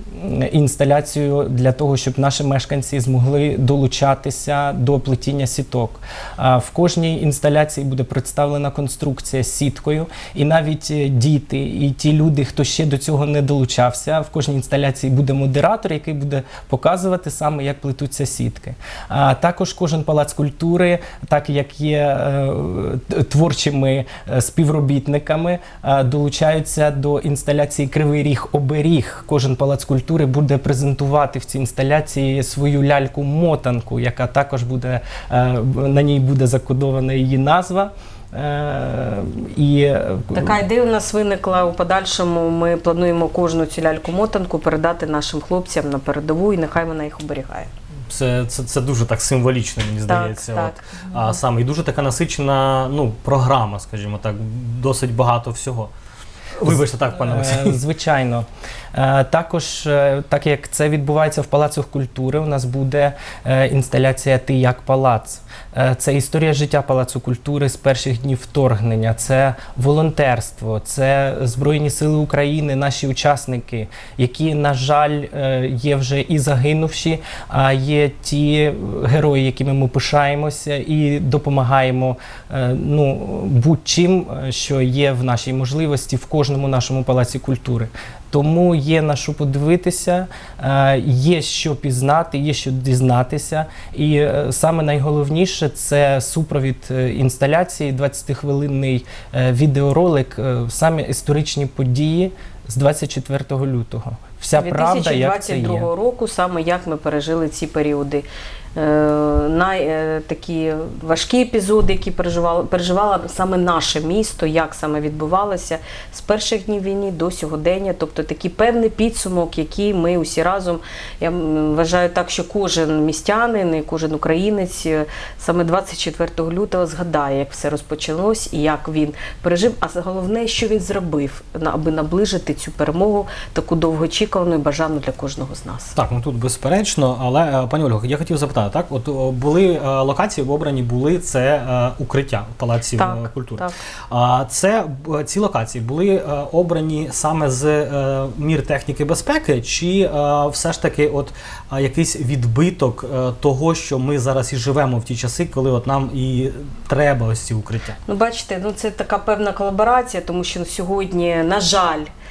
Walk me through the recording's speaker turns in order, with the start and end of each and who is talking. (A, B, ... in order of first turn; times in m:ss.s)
0:00.1-0:40.6 A
0:40.3-0:47.7 B
0:48.1-0:55.9 C
0:50.0-0:51.4 B
0:56.6-0:57.8 C
0:57.1-1:45.9 A
1:44.5-2:15.9 B
2:15.9-2:38.0 C
2:23.0-2:23.7 B
2:38.0-2:42.1 B